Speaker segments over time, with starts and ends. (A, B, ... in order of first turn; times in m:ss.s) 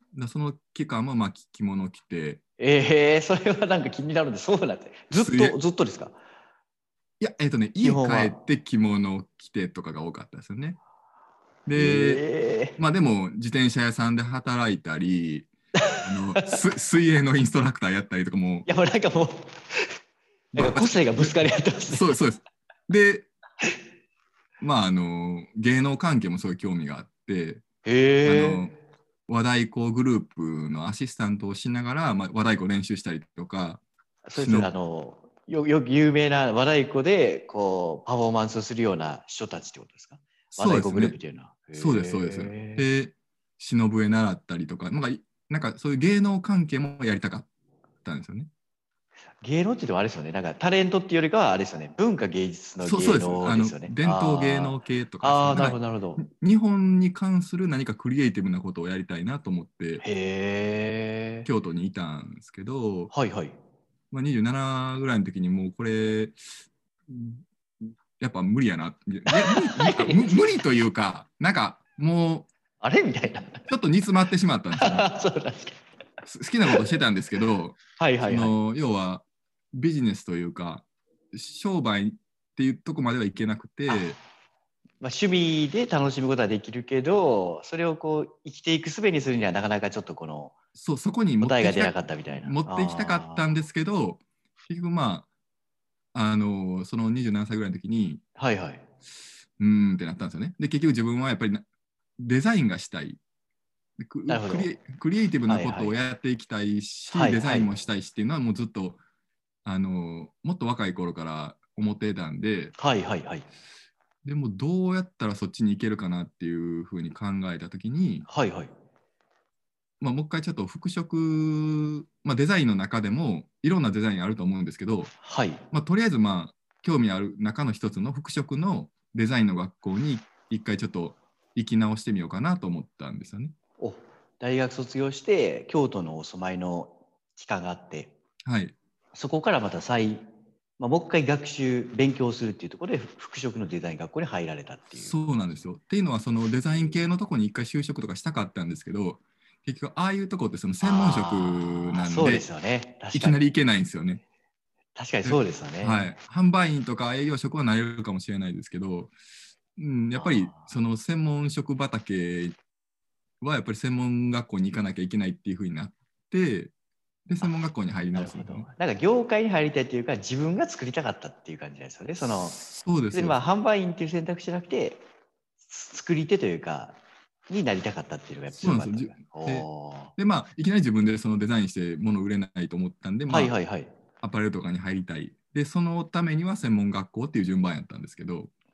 0:00.1-0:02.4 A
0:02.6-0:06.2 B
0:05.1-0:05.6 A
0:07.2-0:10.8 A
0:07.8-0:08.4 B
0:11.7-0:12.2 A
0:11.7-0:12.8 B
0:12.8-0:15.5 A
0:15.8-0:16.6 B
0:16.0-0:18.7 A
0:18.7-0:20.0 B
0:20.5-0:22.2 B
0:20.6-0:23.3 A
0:24.6-0:27.6 A
0:27.8-0:28.7 B
0:28.2-0:28.7 A
0:29.3-0:33.8 A
0:34.2-0:42.9 B
0:34.4-0:34.7 A
0:40.6-0:41.2 A
0:41.8-0:47.5 A
0:48.0-0:48.5 A
0:49.4-0:56.2 B
0:52.8-1:00.0 A
1:00.0-1:01.5 B
1:01.4-1:03.1 A
1:03.1-1:03.6 B
1:04.1-1:06.4 A
1:07.1-1:12.5 A
1:09.3-1:10.6 B
1:12.8-1:13.6 B
1:13.7-1:15.1 A
1:14.8-1:15.8 B
1:16.3-1:24.2 A
1:18.0-1:18.6 B
1:23.9-1:24.2 B
1:25.0-1:30.6 B
1:30.8-1:35.3 A
1:31.4-1:33.4 B
1:36.1-1:38.2 A
1:38.4-1:38.8 B
1:39.6-1:41.6 A
1:42.2-1:43.2 A
1:44.0-1:49.0 A
1:44.3-1:44.7 B
1:45.5-1:46.0 B
1:47.1-1:47.7 B
1:49.6-1:52.8 A
1:52.8-1:53.5 B
1:54.2-1:58.3 A
1:58.3-1:58.7 B
2:00.0-2:05.1 A
2:05.2-2:05.6 B
2:05.7-2:13.6 A
2:13.8-2:18.1 B
2:18.5-2:18.8 A
2:19.1-2:20.3 B
2:20.8-2:25.2 B
2:25.0-2:32.4 A
2:30.8-2:33.4 B
2:33.1-2:34.2 A
2:35.0-2:36.2 B
2:35.2-2:39.1 A
2:39.8-2:42.6 A
2:40.2-2:40.7 B
2:43.4-2:46.7 A
2:47.3-2:48.7 A
2:48.1-2:55.0 B
2:52.3-2:53.4 A
2:55.7-3:00.1 B
2:58.6-3:03.5 A
3:03.3-3:03.9 B
3:04.2-3:08.5 A